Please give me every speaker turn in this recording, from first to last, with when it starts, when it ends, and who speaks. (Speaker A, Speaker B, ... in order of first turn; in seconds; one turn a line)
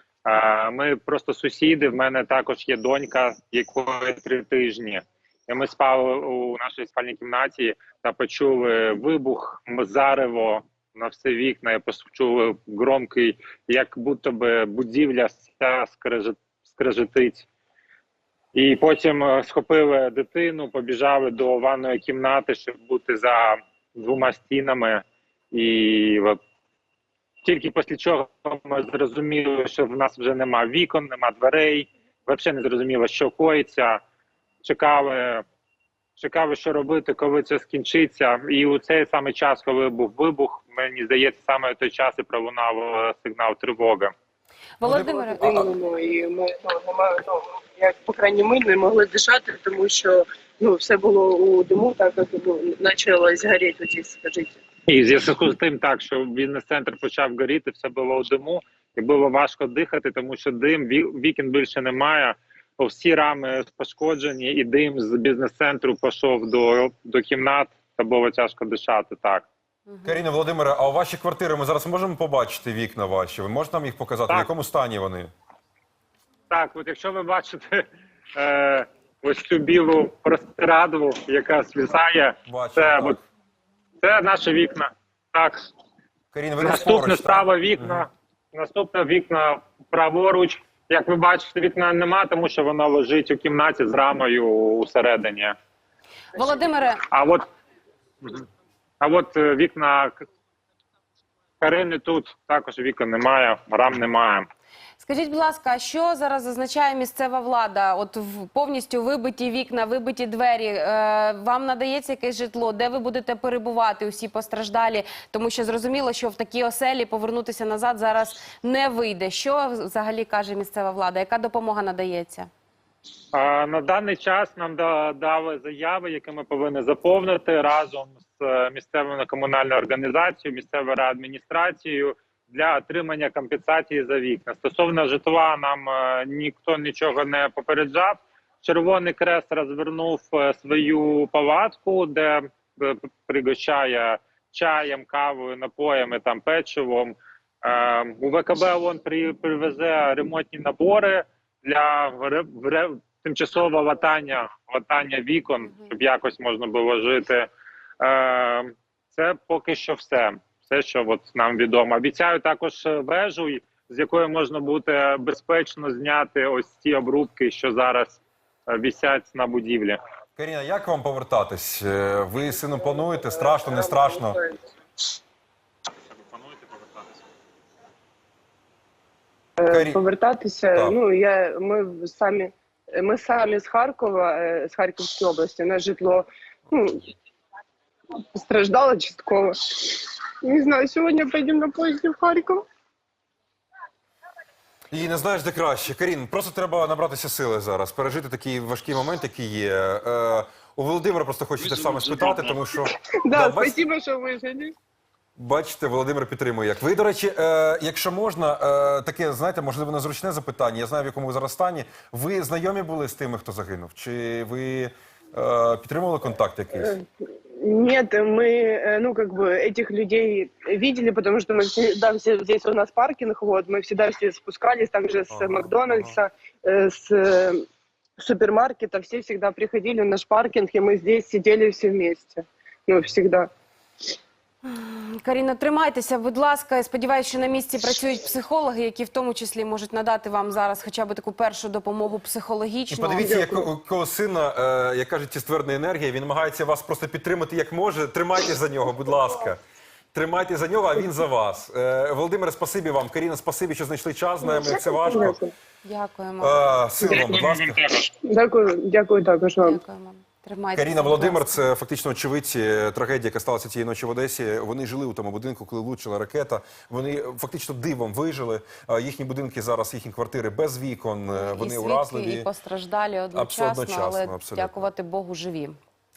Speaker A: 0.3-17.5
Speaker A: 18.5-26.4
Speaker A: 27.4-34.0
Speaker A: 34.6-35.4
Speaker A: 36.2-44.1
Speaker B: 44.8-45.5
Speaker C: 44.8-45.6
Speaker D: 44.9-54.5
Speaker A: 54.9-69.5
Speaker B: 69.9-70.2
Speaker C: 70.0-75.3
Speaker A: 76.5-77.8
Speaker A: 78.3-83.2
Speaker C: 82.5-83.2
Speaker A: 84.0-85.7
Speaker C: 86.3-88.0
Speaker A: 86.6-95.5
Speaker B: 96.3-97.0
Speaker A: 97.1-97.5
Speaker A: 99.0-100.2
Speaker A: 101.6-104.5
Speaker B: 105.0-122.5
Speaker A: 123.3-157.5
Speaker A: 158.0-170.0
Speaker C: 170.4-174.4
Speaker D: 173.6-174.5
Speaker A: 176.1-177.2
Speaker D: 179.6-187.1
Speaker C: 179.7-180.0
Speaker D: 188.3-192.7
Speaker C: 194.9-203.7
Speaker A: 201.6-202.4
Speaker D: 202.7-204.7
Speaker C: 205.4-216.9
Speaker D: 216.8-217.0
Speaker D: 217.6-227.6
Speaker C: 225.3-226.2
Speaker D: 228.2-233.5
Speaker B: 234.7-243.3
Speaker C: 242.9-249.6
Speaker D: 243.2-243.6
Speaker C: 250.1-255.4
Speaker D: 254.4-255.5
Speaker B: 255.8-256.7
Speaker C: 256.4-257.8
Speaker A: 257.1-258.1
Speaker D: 258.2-259.8
Speaker B: 259.6-261.6
Speaker C: 260.7-272.5
Speaker B: 271.3-275.8
Speaker C: 273.3-274.9